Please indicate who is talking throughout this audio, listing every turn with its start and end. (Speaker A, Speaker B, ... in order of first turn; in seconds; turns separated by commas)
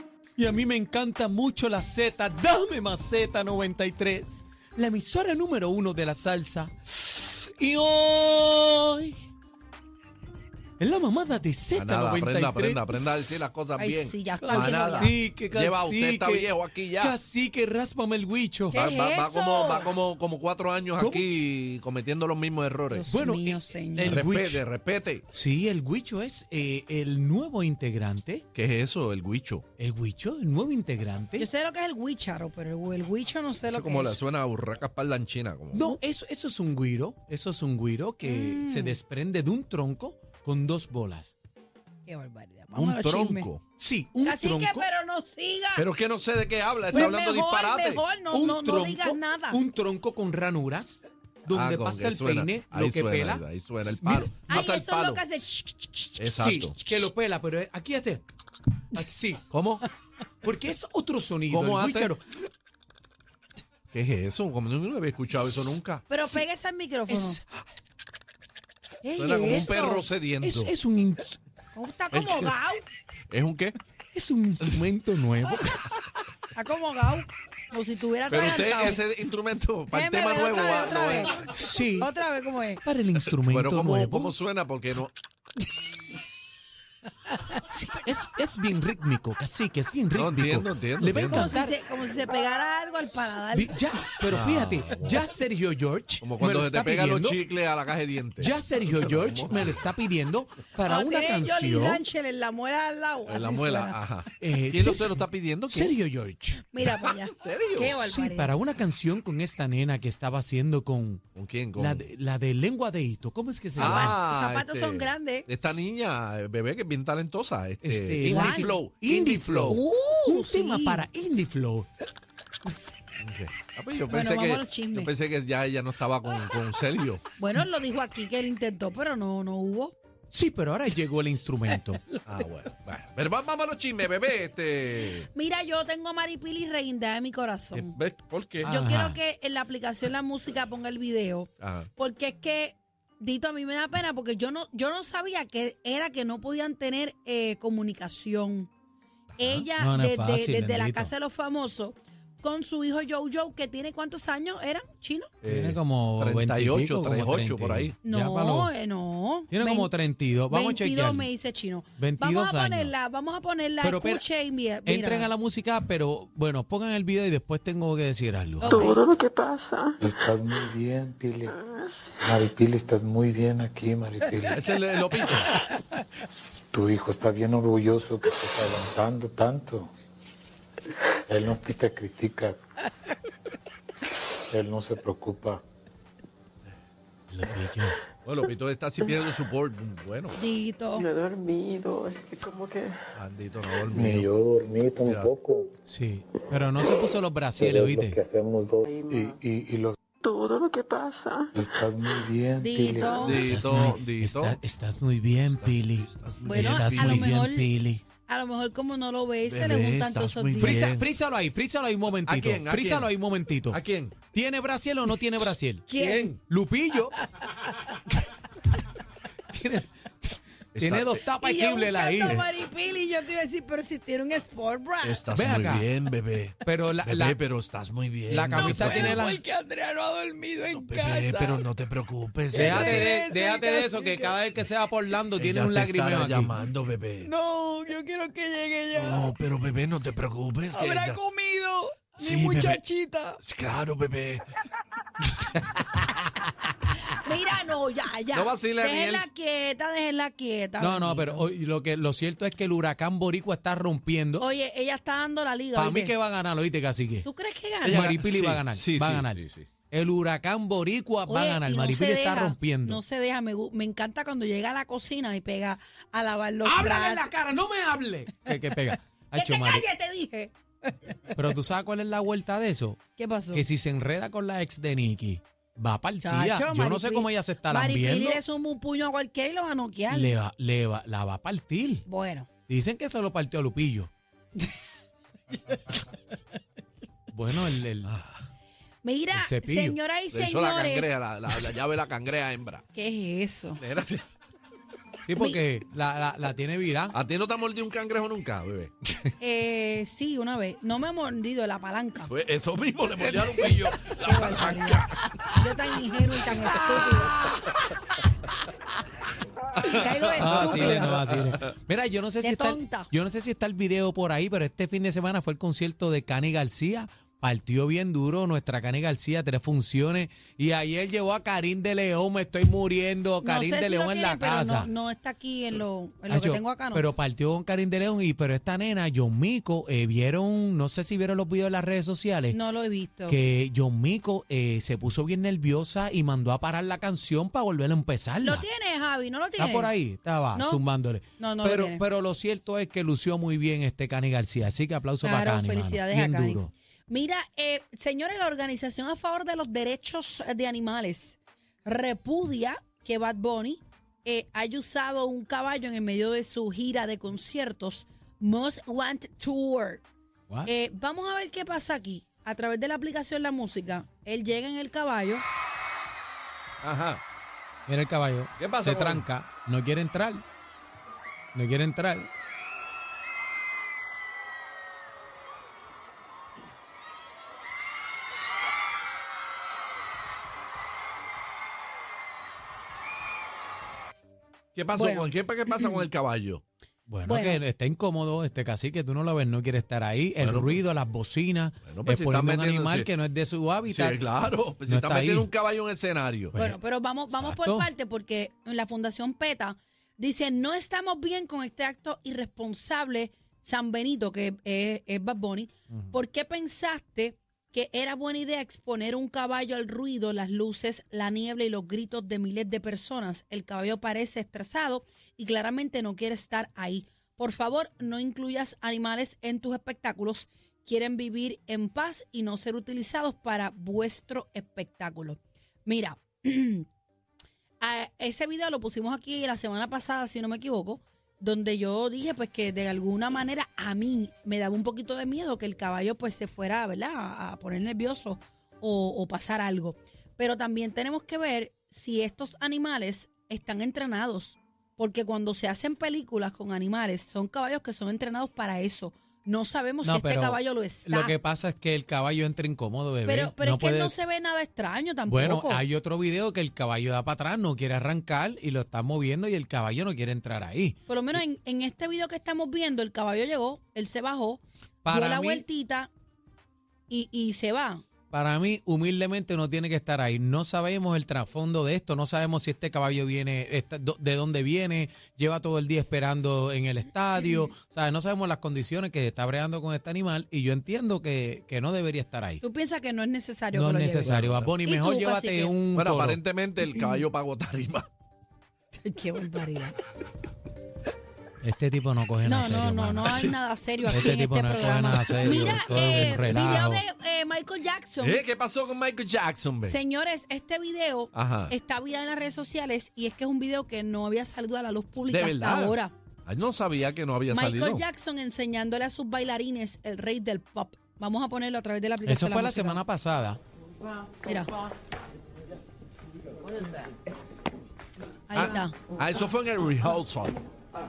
Speaker A: 0.4-9.2, Speaker A: 10.8-13.4, Speaker B: 11.7-17.2, Speaker C: 13.8-15.1, Speaker A: 14.4-18.8, Speaker C: 18.7-19.9, Speaker B: 18.7-23.1, Speaker A: 21.0-21.3, Speaker C: 22.9-24.2, Speaker A: 23.1-24.6, Speaker B: 24.0-25.2, Speaker A: 25.3-28.4, Speaker B: 28.5-29.6, Speaker A: 29.8-31.5, Speaker C: 31.4-34.2, Speaker B: 33.7-35.8, Speaker A: 35.7-41.3, Speaker C: 38.2-39.0, Speaker C: 42.0-43.5, Speaker B: 42.7-43.6, Speaker A: 43.8-44.9, Speaker C: 44.2-45.9, Speaker B: 45.8-48.0, Speaker A: 46.9-47.2, Speaker C: 46.9-49.6, Speaker A: 48.3-54.3, Speaker B: 51.5-55.2, Speaker C: 54.5-57.0, Speaker B: 56.2-56.8, Speaker A: 56.4-58.2, Speaker A: 58.9-59.4, Speaker B: 59.5-59.8, Speaker A: 60.4-62.2, Speaker B: 61.5-62.1, Speaker B: 63.9-66.0, Speaker C: 66.1-67.4, Speaker A: 67.1-67.6, Speaker C: 69.0-70.0, Speaker A: 69.1-69.7, Speaker B: 69.2-70.7, Speaker A: 70.4-71.4, Speaker C: 71.7-72.8, Speaker B: 72.1-72.5, Speaker B: 73.3-73.8, Speaker A: 74.1-75.8, Speaker C: 76.5-79.0, Speaker B: 78.3-81.4, Speaker C: 79.9-81.4, Speaker A: 81.5-82.1, Speaker C: 82.0-82.8, Speaker A: 82.8-84.3, Speaker B: 83.4-85.1, Speaker A: 87.7-91.7, Speaker B: 90.1-91.5, Speaker C: 91.3-93.8, Speaker A: 93.5-97.4, Speaker B: 94.3-95.1, Speaker B: 96.2-99.9, Speaker A: 98.4-102.0, Speaker C: 100.8-104.0, Speaker B: 103.3-105.9, Speaker A: 104.4-107.0, Speaker C: 106.7-108.5, Speaker B: 106.8-108.0, Speaker A: 107.8-111.2, Speaker B: 111.3-112.0, Speaker A: 111.8-114.2, Speaker C: 113.8-115.5, Speaker B: 113.8-119.8, Speaker A: 117.8-121.9, Speaker C: 118.2-118.7, Speaker C: 119.7-121.0, Speaker B: 123.2-127.2, Speaker C: 124.1-125.1, Speaker C: 127.4-129.9, Speaker A: 130.3-132.0, Speaker B: 132.2-135.3, Speaker C: 135.3-137.9, Speaker B: 137.7-138.7, Speaker A: 138.6-139.2, Speaker C: 138.7-148.7, Speaker B: 141.6-141.9, Speaker B: 149.3-149.6, Speaker C: 149.4-155.3, Speaker A: 149.7-151.1, Speaker B: 155.4-157.9, Speaker A: 155.4-158.7, Speaker C: 158.0-159.9, Speaker A: 159.5-161.3, Speaker C: 160.5-165.3, Speaker A: 162.0-162.9, Speaker A: 163.8-164.2, Speaker A: 164.8-169.0, Speaker C: 168.6-169.0, Speaker D: 168.6-170.0, Speaker E: 170.0-171.6, Speaker E: 172.2-174.6, Speaker B: 174.5-175.5, Speaker E: 176.7-179.9, Speaker E: 181.3-182.6, Speaker E: 184.5-185.6, Speaker A: 187.3-188.0, Speaker B: 188.2-190.3, Speaker C: 190.3-191.1, Speaker D: 190.9-193.0, Speaker B: 193.1-194.3, Speaker E: 193.9-195.7, Speaker B: 195.0-195.3, Speaker A: 195.9-198.2, Speaker E: 197.6-199.9, Speaker D: 198.8-199.4, Speaker D: 200.2-201.5, Speaker E: 201.5-203.4, Speaker C: 202.6-203.5, Speaker B: 203.2-204.6, Speaker A: 203.4-208.0, Speaker B: 205.4-207.4, Speaker C: 206.4-207.7, Speaker C: 208.2-210.8, Speaker B: 209.4-211.1, Speaker A: 210.6-217.1, Speaker B: 212.2-213.1, Speaker B: 213.7-214.2, Speaker C: 215.9-216.3, Speaker B: 215.9-216.4, Speaker C: 217.1-217.9, Speaker A: 219.5-222.4, Speaker B: 220.8-221.3, Speaker C: 221.4-225.2, Speaker B: 225.0-229.2, Speaker A: 225.3-225.9, Speaker A: 226.6-227.4, Speaker A: 228.3-229.4, Speaker C: 228.5-231.6, Speaker B: 230.7-233.1, Speaker C: 232.5-234.4, Speaker A: 232.5-236.5, Speaker B: 235.3-237.3, Speaker C: 237.2-239.3, Speaker B: 238.9-241.2, Speaker C: 240.7-243.4, Speaker B: 242.2-242.8, Speaker B: 243.4-244.4, Speaker A: 245.4-246.0, Speaker C: 247.2-251.4, Speaker B: 248.3-249.2, Speaker A: 250.8-254.4, Speaker C: 254.4-256.1, Speaker A: 255.7-257.2, Speaker C: 257.2-258.1, Speaker B: 257.8-259.7, Speaker A: 257.9-263.0, Speaker C: 261.3-267.3, Speaker A: 266.6-269.9, Speaker C: 269.3-271.3, Speaker A: 271.3-273.0, Speaker C: 273.2-273.6, Speaker A: 273.5-278.4, Speaker C: 276.2-280.4, Speaker A: 280.1-282.0, Speaker C: 282.1-282.5, Speaker A: 282.7-284.1, Speaker A: 287.3-288.1, Speaker B: 288.1-288.4, Speaker C: 289.0-291.1, Speaker A: 289.3-290.0, Speaker B: 290.3-292.8, Speaker C: 292.9-293.8, Speaker B: 293.8-294.3, Speaker A: 295.2-297.1, Speaker B: 297.1-299.3, Speaker C: 299.4-302.3, Speaker B: 302.3-305.4, Speaker A: 303.1-303.8, Speaker C: 303.6-307.3, Speaker B: 306.5-307.5, Speaker B: 309.8-311.6, Speaker C: 309.8-311.2, Speaker A: 310.4-324.9, Speaker C: 312.4-313.1, Speaker C: 323.4-327.1, Speaker A: 326.3-332.6, Speaker C: 332.5-333.4, Speaker A: 333.3-338.7, Speaker C: 338.4-339.9, Speaker A: 339.6-346.7, Speaker C: 340.5-340.8, Speaker C: 341.4-342.0, Speaker C: 345.2-360.0, Speaker C: 360.6-365.4, Speaker B: 366.8-367.2, Speaker A: 367.9-370.4, Speaker B: 368.6-369.2, Speaker A: 371.5-372.3, Speaker B: 384.7-386.6, Speaker C: 384.9-386.1, Speaker A: 387.1-395.5, Speaker C: 387.2-387.6, Speaker B: 390.4-390.8, Speaker B: 391.8-393.1, Speaker B: 393.9-396.6, Speaker A: 396.5-396.8, Speaker C: 396.6-426.9, Speaker A: 397.3-397.9, Speaker C: 427.8-451.3, Speaker A: 450.0-454.2, Speaker C: 453.2-455.8, Speaker A: 455.2-461.0, Speaker C: 461.1-466.1, Speaker A: 465.0-465.6, Speaker C: 467.1-468.0, Speaker A: 468.3-482.6, Speaker C: 482.6-485.8, Speaker A: 483.7-486.4, Speaker B: 484.2-484.7, Speaker B: 485.9-488.1, Speaker C: 486.8-487.2, Speaker C: 488.9-490.0, Speaker A: 491.6-493.4, Speaker C: 492.4-498.4, Speaker B: 493.2-493.5, Speaker A: 494.0-497.0, Speaker B: 495.4-495.8, Speaker B: 498.2-500.0, Speaker C: 499.8-506.1, Speaker B: 501.3-501.7, Speaker B: 505.3-508.0, Speaker C: 507.5-513.0, Speaker A: 512.2-513.6, Speaker C: 514.4-514.7, Speaker C: 518.5-519.0, Speaker B: 518.5-520.5